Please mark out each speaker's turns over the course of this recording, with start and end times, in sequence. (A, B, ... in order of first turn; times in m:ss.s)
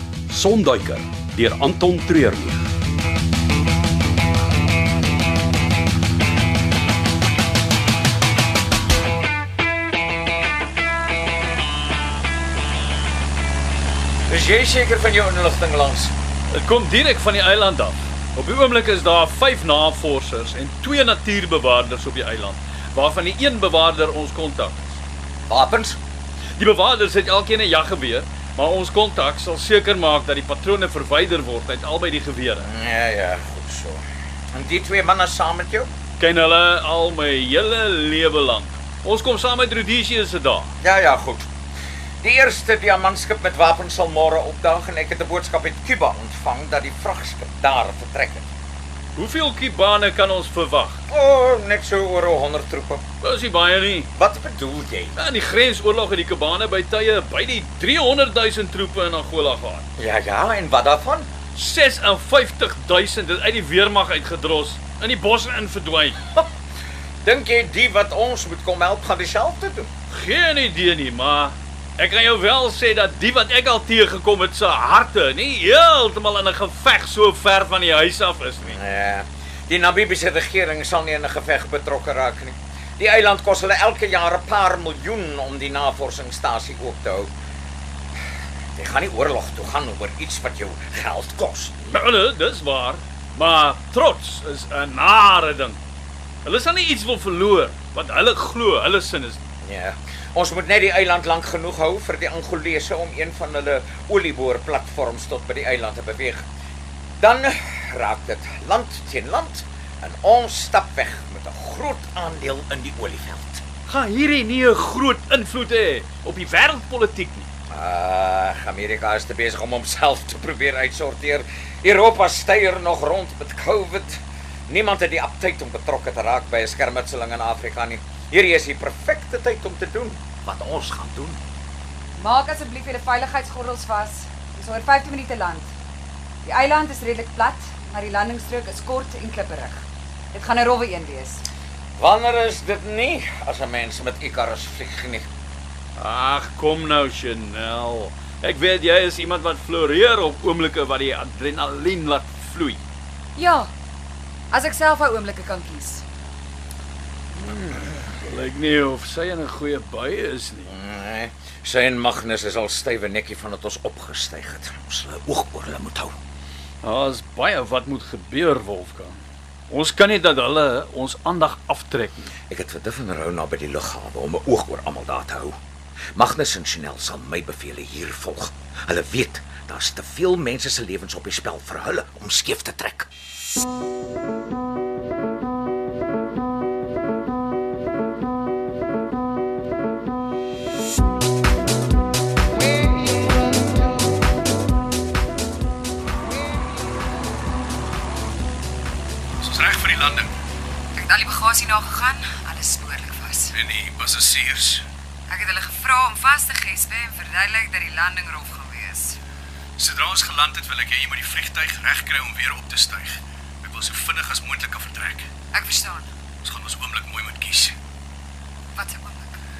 0:00.3-0:02.6 A
0:14.3-0:16.1 B
0:16.5-0:25.0 C
0:25.5-0:26.0 B
0:26.6-0:32.7 C
0:32.6-0:34.0 B
0:34.5-0:35.9 B
0:36.2-0:40.7 C
0:40.8-0:41.5 B
0:42.2-0:48.5 B
0:49.2-0:51.0 C
0:51.1-0:53.0 B
0:53.2-0:54.1 C
0:54.2-0:55.2 B
0:55.2-0:59.8 C
1:00.0-1:01.3 B
1:01.5-1:06.2 C
1:07.2-1:09.9 B
1:10.1-1:18.7 C
1:18.6-1:27.3 B
1:28.8-1:32.0 B
1:31.9-1:35.8 C
1:36.4-1:39.4 C
1:39.6-1:46.4 B
1:47.2-1:53.6 B
1:53.9-1:57.5 C
1:57.7-2:11.4 B
2:12.2-2:15.7 D
2:16.4-2:21.4 D
2:22.0-2:25.3 B
2:26.0-2:32.8 C
2:33.4-2:33.7 D
2:34.5-2:36.0 D
2:37.9-2:40.7 C
2:40.6-2:46.2 B
2:46.8-2:49.2 C
2:49.7-2:52.3 C
2:52.5-2:55.6 B
2:56.2-3:03.1 B
3:19.4-3:20.3 E
3:20.9-3:23.5 D
3:23.5-3:24.8 E
3:25.3-3:29.2 D
3:29.8-3:35.3 E
3:35.5-3:36.1 D
3:36.4-3:37.7 E
3:38.7-3:39.4 D